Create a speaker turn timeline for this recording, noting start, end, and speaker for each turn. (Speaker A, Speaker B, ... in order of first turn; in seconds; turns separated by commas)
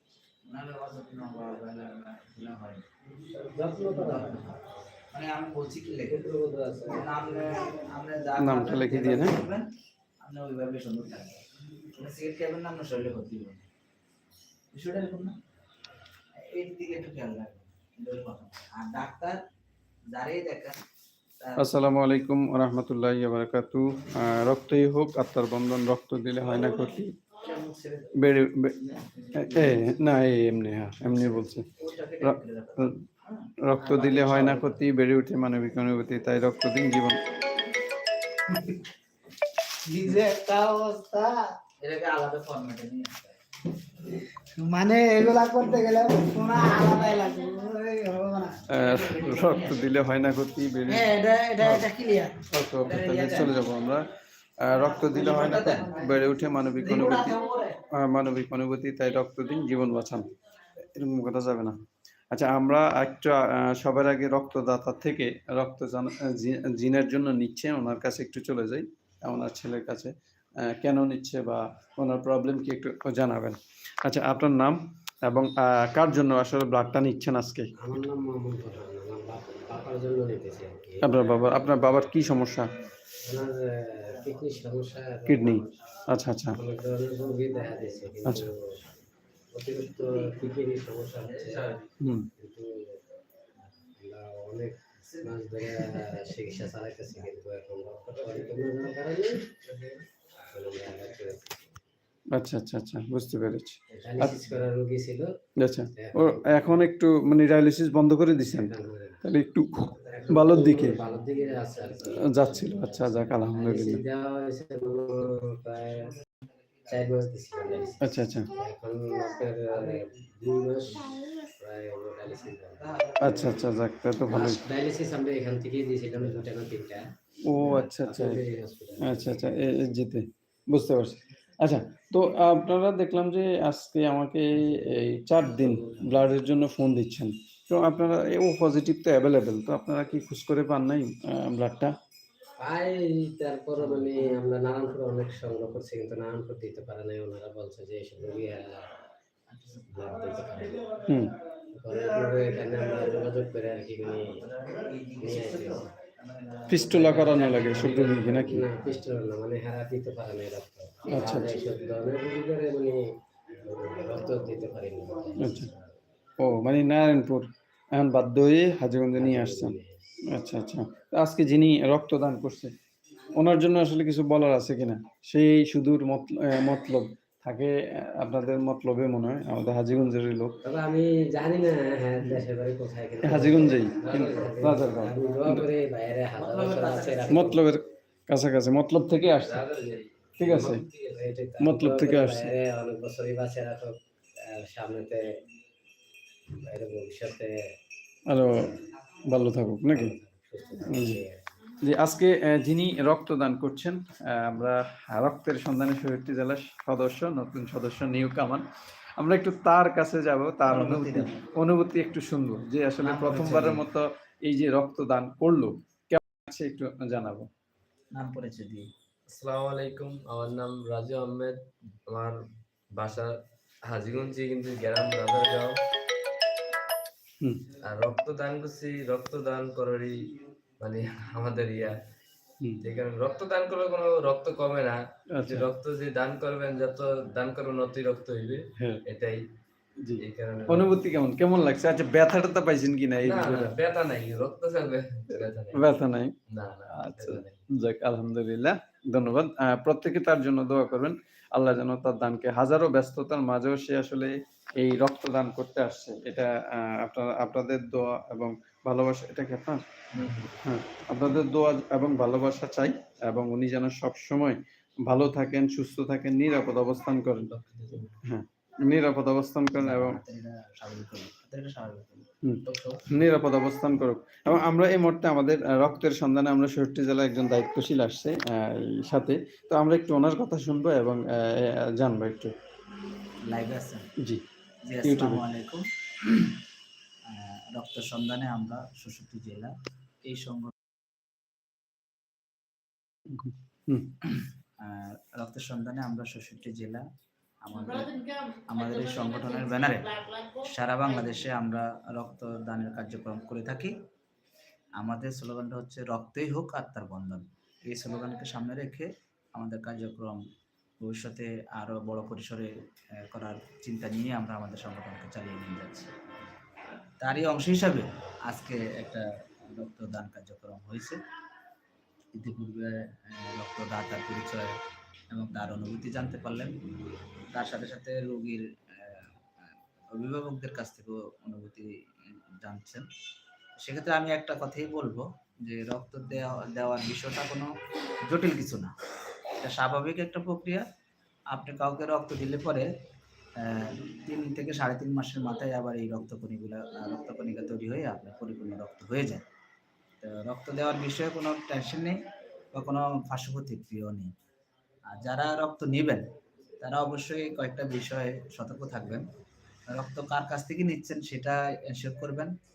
Speaker A: 0.5-2.8, Speaker B: 3.4-4.4, Speaker A: 3.9-4.6, Speaker A: 5.1-6.3, Speaker B: 6.1-7.2, Speaker A: 6.9-9.7, Speaker C: 8.4-9.4, Speaker A: 10.2-11.4, Speaker A: 11.9-13.7, Speaker A: 14.7-15.4, Speaker A: 16.4-19.4, Speaker A: 20.1-20.8, Speaker A: 21.4-21.8, Speaker C: 21.6-27.1, Speaker A: 26.4-26.8, Speaker A: 27.4-28.2, Speaker C: 28.2-28.8, Speaker A: 28.8-29.9, Speaker C: 29.4-31.7, Speaker A: 31.1-34.8, Speaker C: 32.2-32.9, Speaker C: 33.6-37.2, Speaker D: 40.2-41.3, Speaker A: 41.8-43.4, Speaker D: 44.7-47.8, Speaker A: 48.6-49.9, Speaker C: 48.7-51.9, Speaker C: 52.5-57.4, Speaker A: 52.8-53.6, Speaker A: 55.1-56.1, Speaker A: 56.9-57.8, Speaker C: 57.9-60.3, Speaker C: 61.0-61.8, Speaker C: 62.3-77.7, Speaker B: 77.8-81.1, Speaker C: 81.0-82.7, Speaker A: 81.4-81.9, Speaker B: 83.2-85.7, Speaker A: 84.0-85.0, Speaker C: 85.3-86.6, Speaker B: 86.5-88.5, Speaker A: 87.5-88.1, Speaker B: 89.5-91.7, Speaker A: 90.0-91.3, Speaker E: 91.3-91.9, Speaker C: 92.0-92.3, Speaker B: 92.4-92.8, Speaker B: 93.9-99.5, Speaker A: 95.0-95.4, Speaker B: 100.5-101.7, Speaker C: 102.3-104.4, Speaker B: 104.0-105.3, Speaker C: 105.6-111.0, Speaker B: 105.9-106.8, Speaker B: 108.4-109.2, Speaker B: 110.2-116.1, Speaker A: 110.7-111.7, Speaker C: 112.1-114.0, Speaker B: 116.9-123.6, Speaker C: 118.0-118.5, Speaker A: 119.7-120.0, Speaker A: 122.7-123.7, Speaker C: 123.2-124.6, Speaker B: 124.3-129.7, Speaker C: 127.5-128.4, Speaker C: 129.0-141.9, Speaker B: 135.6-136.1, Speaker B: 142.6-148.8, Speaker A: 143.8-144.3, Speaker A: 149.5-150.7, Speaker B: 149.9-151.0, Speaker C: 151.1-151.3, Speaker B: 151.7-154.4, Speaker A: 154.2-158.3, Speaker B: 155.2-155.9, Speaker C: 156.7-158.7, Speaker B: 157.5-165.8, Speaker C: 161.1-161.6, Speaker C: 165.4-165.7, Speaker C: 166.4-169.8, Speaker B: 169.1-170.0, Speaker C: 170.3-172.7, Speaker C: 173.3-180.6, Speaker B: 180.6-187.6, Speaker C: 183.2-185.7, Speaker E: 184.0-184.8, Speaker A: 186.3-187.6, Speaker C: 187.3-189.7, Speaker E: 189.3-191.2, Speaker C: 190.4-190.8, Speaker B: 191.1-195.3, Speaker C: 191.6-192.6, Speaker B: 196.5-197.6, Speaker C: 198.3-200.2, Speaker B: 199.9-201.4, Speaker C: 200.8-201.2, Speaker C: 201.8-208.7, Speaker C: 209.2-217.5, Speaker A: 210.7-211.4, Speaker A: 213.0-213.9, Speaker A: 218.1-218.9, Speaker E: 219.3-222.4, Speaker E: 222.9-223.3, Speaker E: 223.9-225.7, Speaker C: 227.4-227.7, Speaker E: 227.8-232.0, Speaker E: 232.8-239.4, Speaker C: 235.4-235.7, Speaker C: 238.8-239.0, Speaker C: 240.0-243.8, Speaker E: 240.2-241.1, Speaker E: 243.2-245.9, Speaker C: 245.3-246.3, Speaker E: 246.5-247.6, Speaker C: 246.9-259.8, Speaker A: 260.1-260.5, Speaker C: 260.6-267.5, Speaker E: 267.3-268.1, Speaker C: 268.2-270.2, Speaker A: 269.8-272.3, Speaker C: 272.4-282.5, Speaker E: 272.7-273.0, Speaker A: 283.5-284.1, Speaker A: 284.9-286.6, Speaker C: 285.0-285.4, Speaker A: 287.3-289.7, Speaker A: 290.2-290.7, Speaker C: 293.3-294.1, Speaker A: 294.8-297.0, Speaker A: 297.6-303.9, Speaker A: 305.0-310.4, Speaker A: 311.0-316.1, Speaker A: 317.2-321.2, Speaker A: 322.4-324.8, Speaker A: 325.3-326.7, Speaker A: 327.5-329.3, Speaker A: 330.1-331.9, Speaker A: 332.6-333.1, Speaker A: 333.8-337.7, Speaker A: 338.2-338.9, Speaker A: 339.6-340.9, Speaker A: 341.5-342.9, Speaker A: 343.6-349.4, Speaker A: 350.2-352.2, Speaker A: 352.7-354.3, Speaker A: 355.1-356.2, Speaker A: 356.8-359.3, Speaker A: 359.9-362.5